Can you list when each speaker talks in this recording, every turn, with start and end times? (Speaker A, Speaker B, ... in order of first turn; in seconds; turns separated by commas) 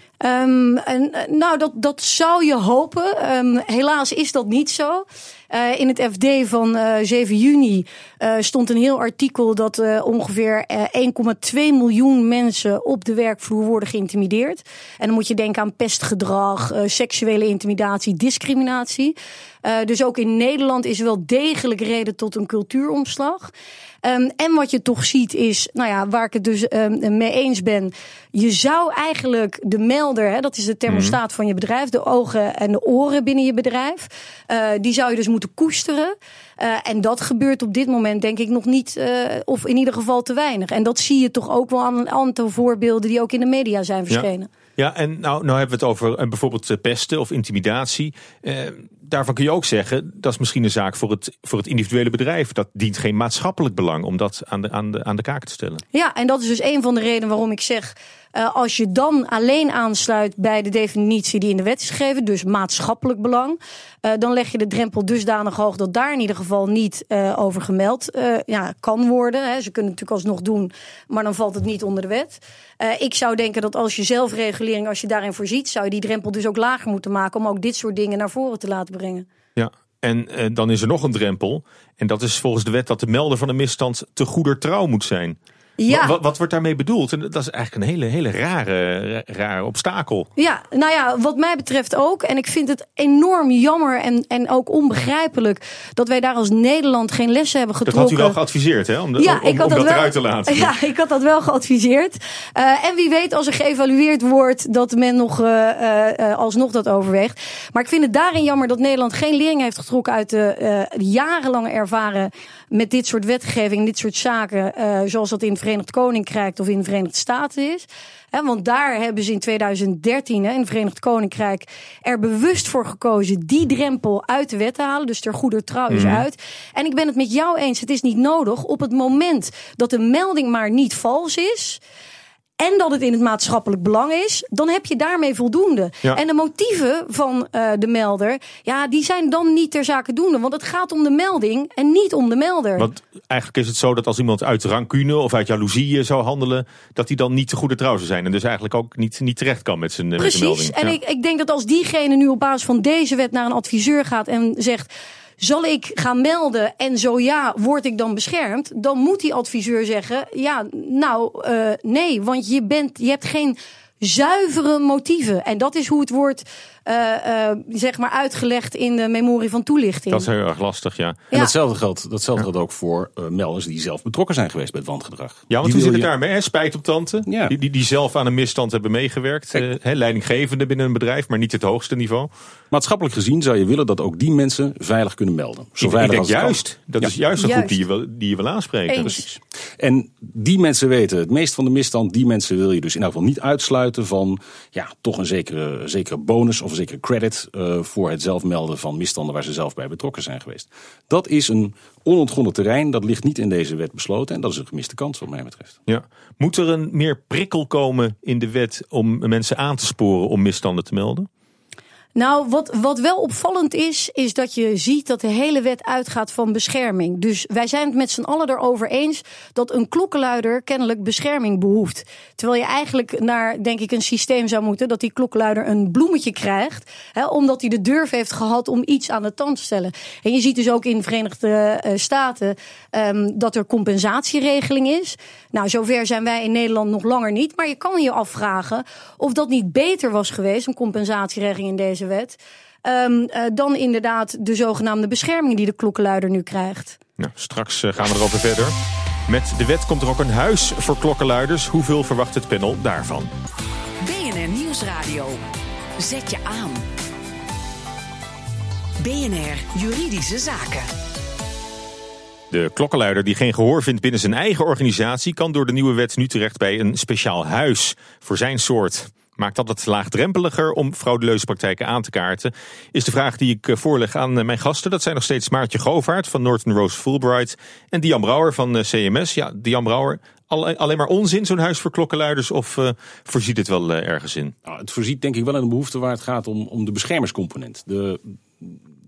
Speaker A: 0.2-23.5, Speaker A: 24.0-44.5, Speaker B: 30.9-31.2, Speaker B: 44.1-55.8, Speaker A: 55.9-79.2, Speaker B: 79.5-90.3, Speaker A: 85.8-86.2, Speaker A: 90.4-98.4, Speaker B: 97.9-100.7, Speaker A: 99.2-131.8, Speaker B: 125.9-126.2, Speaker A: 132.6-142.9, Speaker B: 142.8-150.9, Speaker A: 150.2-154.9, Speaker A: 155.4-170.3, Speaker B: 170.1-171.3, Speaker C: 171.3-176.1, Speaker B: 175.5-182.3, Speaker C: 177.2-177.5, Speaker C: 182.7-187.1, Speaker B: 185.8-189.2, Speaker A: 187.4-187.8, Speaker A: 188.9-189.2, Speaker C: 189.1-205.8, Speaker B: 205.9-211.3, Speaker A: 212.2-247.0, Speaker B: 247.2-248.7, Speaker B: 249.3-253.3, Speaker D: 254.0-255.4, Speaker D: 256.0-256.8, Speaker D: 259.0-260.9, Speaker B: 262.5-284.5, Speaker C: 284.6-288.8